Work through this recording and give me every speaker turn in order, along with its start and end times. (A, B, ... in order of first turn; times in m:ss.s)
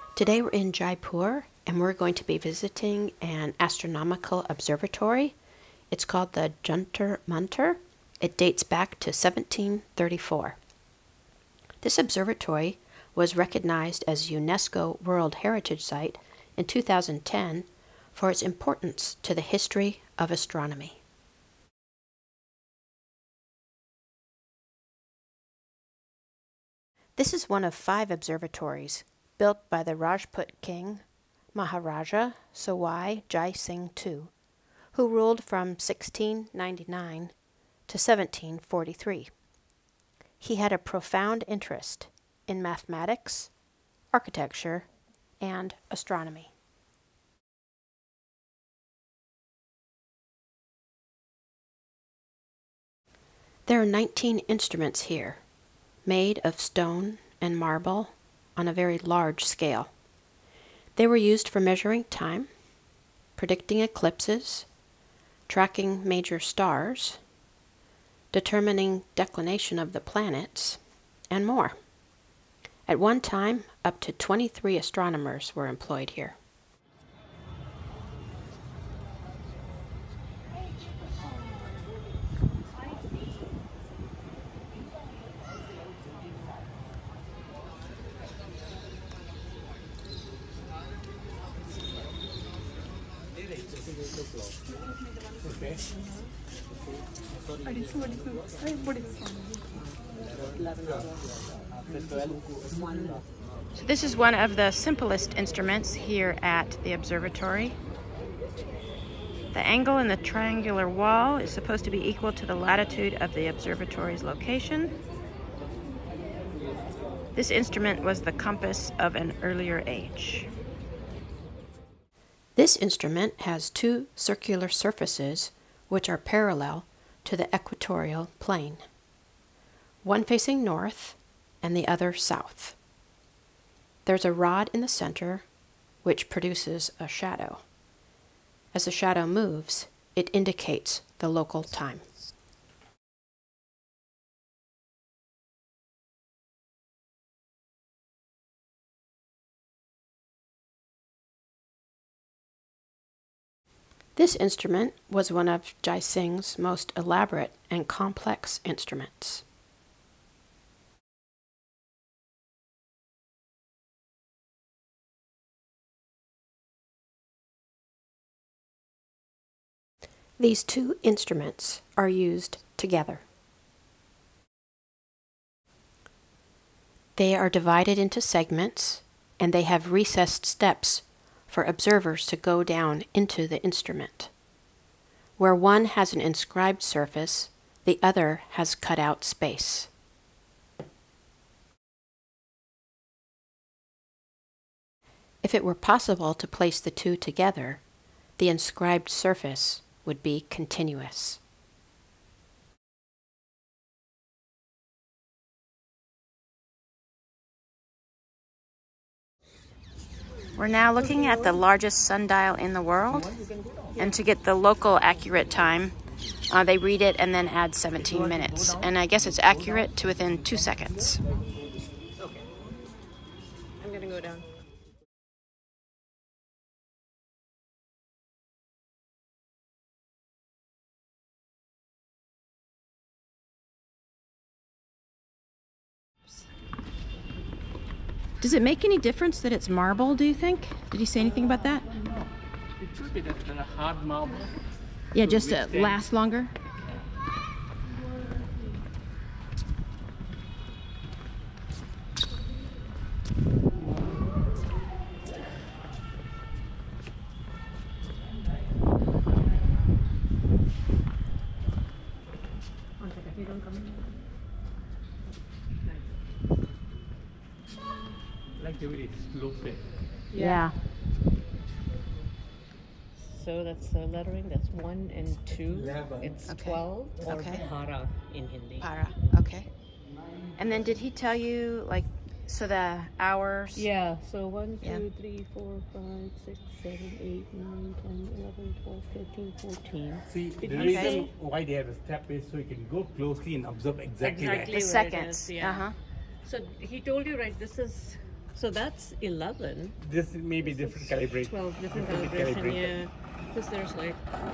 0:00.2-0:05.4 A
0:05.9-0:10.6 A
0:11.8-0:21.0 A
0:27.2-0:31.0 A
0:31.5-0:34.3 A
0:34.9-0:37.3 A
0:37.9-0:39.3 A
0:40.4-0:43.5 A
0:44.1-0:44.9 A
0:45.4-0:46.5 A
0:53.7-0:55.4 A
0:56.0-0:59.9 A
1:01.0-1:02.5 A
1:03.4-1:04.7 A
1:05.5-1:07.2 A
1:08.3-1:11.8 A
1:12.9-1:16.4 A
1:35.5-1:35.8 B
1:43.8-1:47.8 A
1:49.5-1:55.0 A
1:57.4-2:00.5 A
2:02.6-2:08.8 A
2:10.0-2:12.8 A
2:14.1-2:15.4 A
2:16.0-2:17.6 A
2:18.7-2:22.0 A
2:34.2-2:39.4 A
2:50.4-2:53.2 A
2:57.2-3:04.3 A
3:05.4-3:09.9 A
3:15.4-3:17.8 A
3:18.4-3:21.4 A
3:30.6-3:33.4 A
3:34.0-3:35.9 A
3:36.5-3:41.2 A
3:43.8-3:44.5 C
3:58.4-4:01.9 A
4:02.8-4:04.5 B
4:05.1-4:06.5 A
4:05.2-4:06.0 B
4:23.0-4:24.0 C
4:28.6-4:29.8 B
4:30.3-4:30.7 C
4:30.4-4:30.8 A
4:33.2-4:38.9 C
4:36.5-4:37.6 A
4:38.8-4:39.7 A
4:40.6-4:43.8 A
4:43.7-4:51.3 C
4:50.3-4:54.8 B
4:50.7-4:51.1 A
4:54.2-4:55.9 C
4:54.7-4:56.0 A
4:56.4-5:00.0 C
5:00.0-5:03.0 B
5:00.6-5:04.2 C